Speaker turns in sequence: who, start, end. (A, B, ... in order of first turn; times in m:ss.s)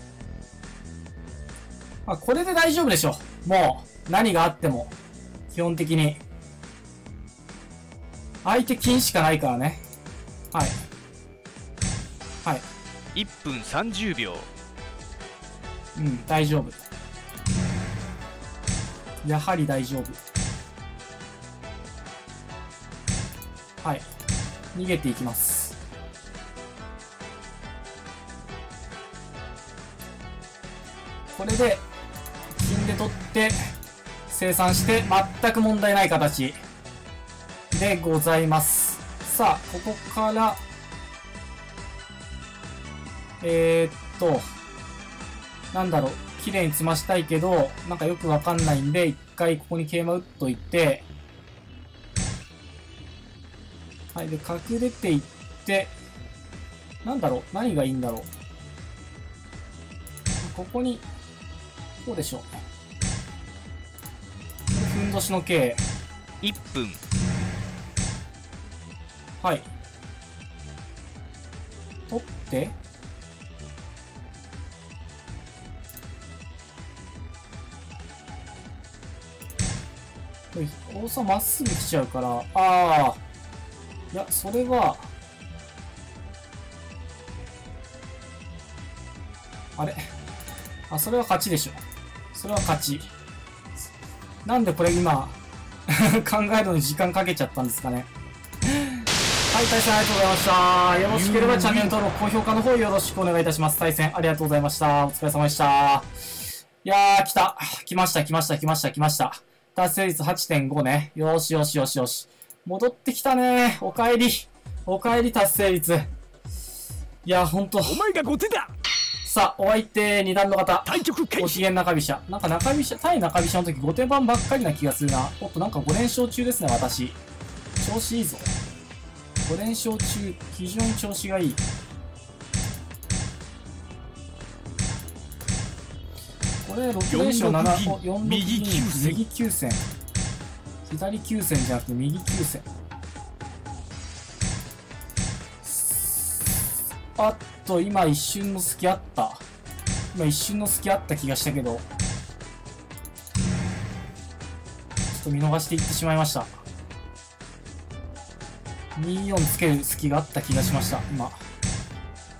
0:02.1-0:04.9 A
0:05.5-0:06.2 A
0:08.4-0:09.8 A
0:10.5-0:10.8 A
0:13.1-0:14.5 B
0:16.0-0:16.9 A
0:19.2-0:20.2 A
0:23.8-0:24.1 A
0:24.7-0:25.8 A
0:31.3-0:31.8 A
0:32.5-0:33.7 A
0:34.3-0:36.6 A
0:37.7-0:40.6 A
0:43.4-0:44.5 A
0:45.7-0:51.1 A
0:54.1-0:56.0 A
0:57.0-0:58.3 A
1:00.4-1:01.0 A
1:02.0-1:02.6 A
1:04.7-1:05.8 A
1:06.4-1:07.0 B
1:09.4-1:09.7 A
1:12.1-1:12.8 A
1:20.5-1:23.2 A
1:24.1-1:25.1 A
1:29.8-1:30.1 A
1:30.9-1:31.8 A
1:32.3-1:33.1 A
1:34.4-1:38.1 A
1:38.7-1:39.0 A
1:39.5-1:46.1 A
1:41.1-1:42.0 C
1:46.8-1:56.1 A
1:57.2-1:58.1 A
1:57.8-1:58.7 C
1:59.2-2:07.2 A
2:00.9-2:01.6 C
2:07.8-2:08.5 A
2:09.5-2:11.6 A
2:16.6-2:19.8 A
2:17.1-2:19.2 C
2:20.9-2:22.7 A
2:25.6-2:26.6 A
2:27.1-2:29.4 A
2:30.1-2:31.9 A
2:35.1-2:36.5 A
2:39.0-2:41.4 A